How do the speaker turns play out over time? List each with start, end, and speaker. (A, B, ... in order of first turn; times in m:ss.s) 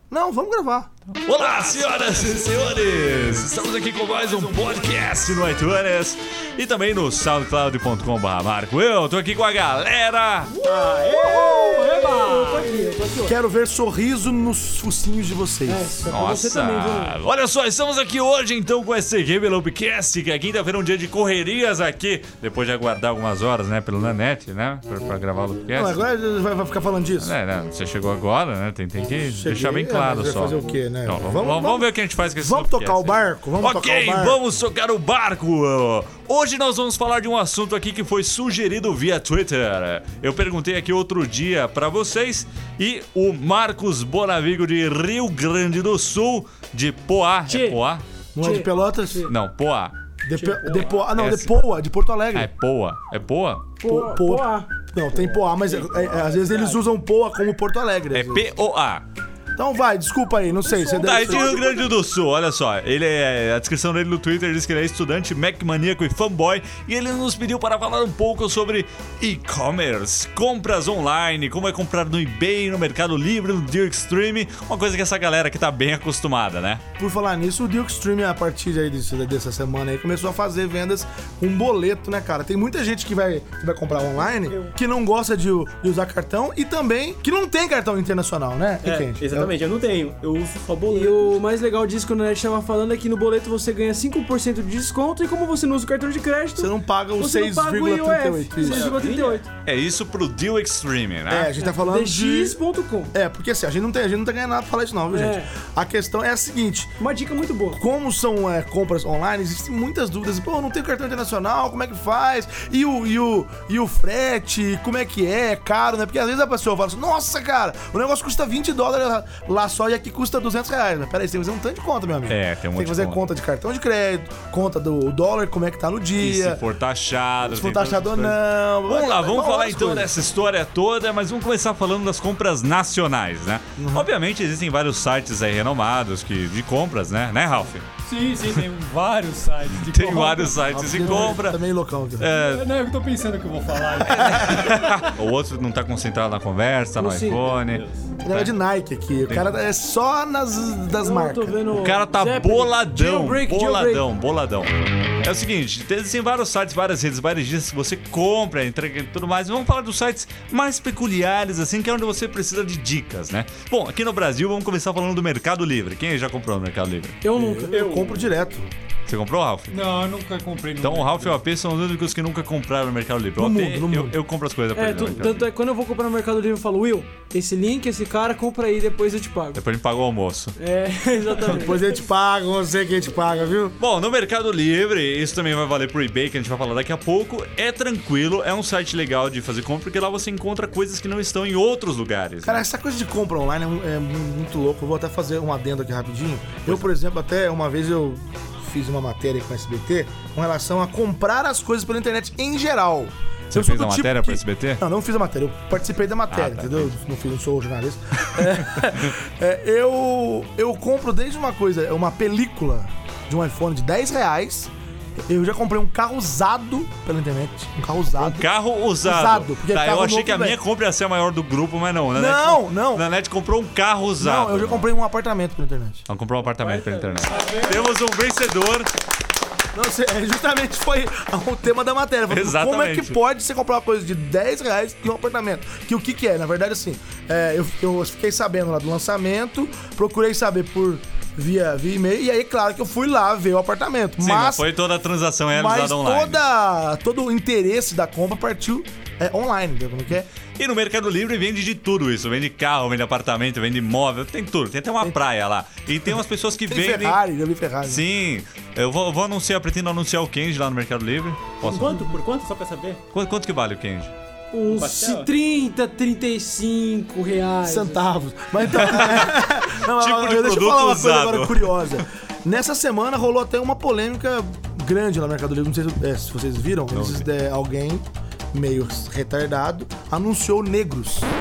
0:00.1-0:00.9 A
0:01.1-0:10.5 B
0:10.5-0:13.3 C
0:10.6-0:12.7 D
0:11.7-0:12.4 E
0:13.2-0:15.9 A
0:15.7-0:17.2 C
0:16.1-0:26.0 B
0:25.7-0:27.3 A
0:27.2-0:48.0 B
0:29.3-0:34.4 A
0:47.5-0:47.8 C
0:48.3-0:49.3 A
0:48.4-0:49.3 C
0:49.2-0:50.0 B
0:50.2-0:52.5 A
0:50.3-0:50.9 D
0:51.0-0:51.5 B
0:52.3-0:53.8 B
0:53.8-0:54.7 C
0:53.8-0:58.5 A
0:55.4-0:56.7 D
0:58.1-0:59.0 B
0:59.6-1:01.9 A
1:00.6-1:01.7 C
1:01.0-1:16.8 B
1:17.0-1:29.5 A
1:24.2-1:24.7 D
1:28.8-1:31.4 D
1:30.9-1:39.5 C
1:36.6-1:38.9 A
1:38.6-1:39.4 D
1:39.6-1:41.5 B
1:41.3-1:42.6 A
1:41.6-1:43.1 C
1:43.1-1:46.9 A
1:45.1-1:45.5 C
1:47.0-1:47.8 C
1:47.8-2:06.6 A
2:02.3-2:03.2 B
2:06.2-2:17.8 B
2:07.4-2:10.1 A
2:13.8-2:14.1 A
2:18.0-2:21.3 E
2:19.8-2:21.6 B
2:20.7-2:22.3 A
2:22.2-2:22.6 B
2:22.3-2:25.1 E
2:24.0-2:24.6 A
2:24.2-2:28.5 B
2:27.0-2:27.5 C
2:28.2-2:31.6 A
2:29.2-2:29.6 B
2:31.0-2:34.0 C
2:31.7-2:47.2 B
2:47.2-2:48.2 C
2:47.3-2:48.7 A
2:49.0-2:49.8 B
2:49.7-2:51.4 E
2:50.8-2:55.5 B
2:53.4-2:54.2 A
2:54.7-2:59.6 C
2:59.5-3:00.5 B
3:00.6-3:01.8 C
3:01.4-3:03.8 A
3:03.8-3:12.6 B
3:12.4-3:34.7 A
3:23.5-3:24.8 B
3:26.3-3:26.9 B
3:35.2-3:38.5 A
3:38.1-3:44.9 B
3:39.0-3:40.6 A
3:42.1-3:43.0 A
3:44.2-3:46.0 A
3:46.1-3:48.9 B
3:46.6-3:47.2 D
3:49.7-4:04.7 A
3:52.3-3:53.2 B
4:04.2-4:06.4 B
4:05.5-4:10.3 A
4:10.6-4:17.2 B
4:16.7-4:18.0 A
4:17.8-4:22.0 B
4:21.6-4:23.0 D
4:23.1-4:24.1 B
4:24.5-4:28.0 C
4:24.6-4:25.3 D
4:27.6-4:41.3 A
4:28.8-4:31.9 B
4:36.9-4:37.2 B